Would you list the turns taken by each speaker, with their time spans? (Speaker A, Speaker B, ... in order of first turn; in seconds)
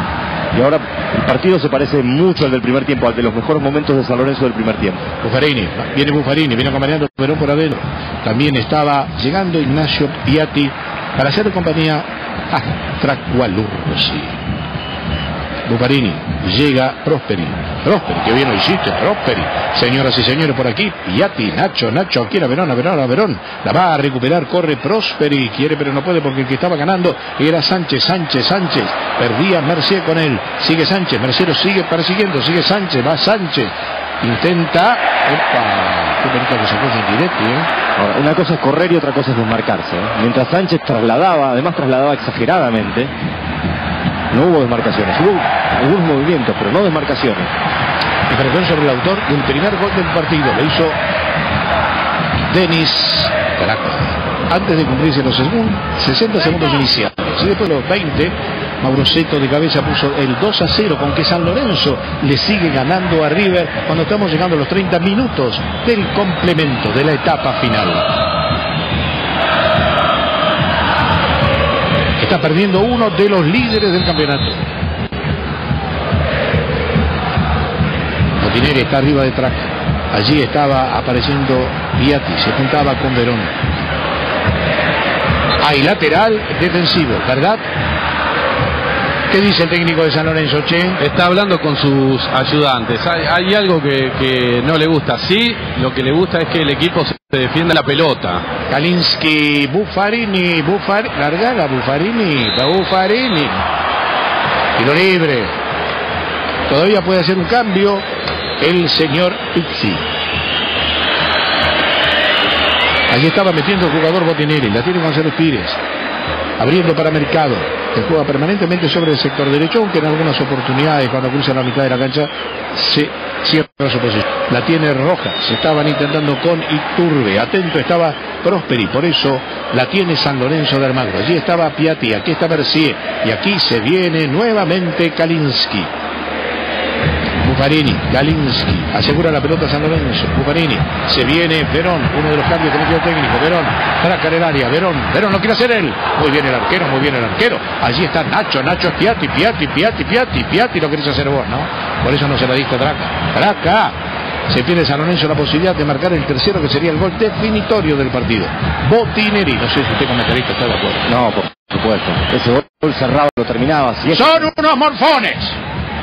Speaker A: 0.5-5.0, 38.0-43.1, 44.3-47.5, 161.1-164.5
Speaker B: 5.2-14.4, 15.7-37.7, 48.3-51.0, 52.5-68.1, 72.2-74.6, 78.4-83.5, 85.6-87.7, 89.3-91.0, 98.7-103.7, 104.8-105.6, 106.7-108.1, 108.6-110.1, 113.1-115.8, 116.6-135.9, 137.4-154.0, 154.5-161.1, 164.1-165.6
Speaker C: 91.0-98.5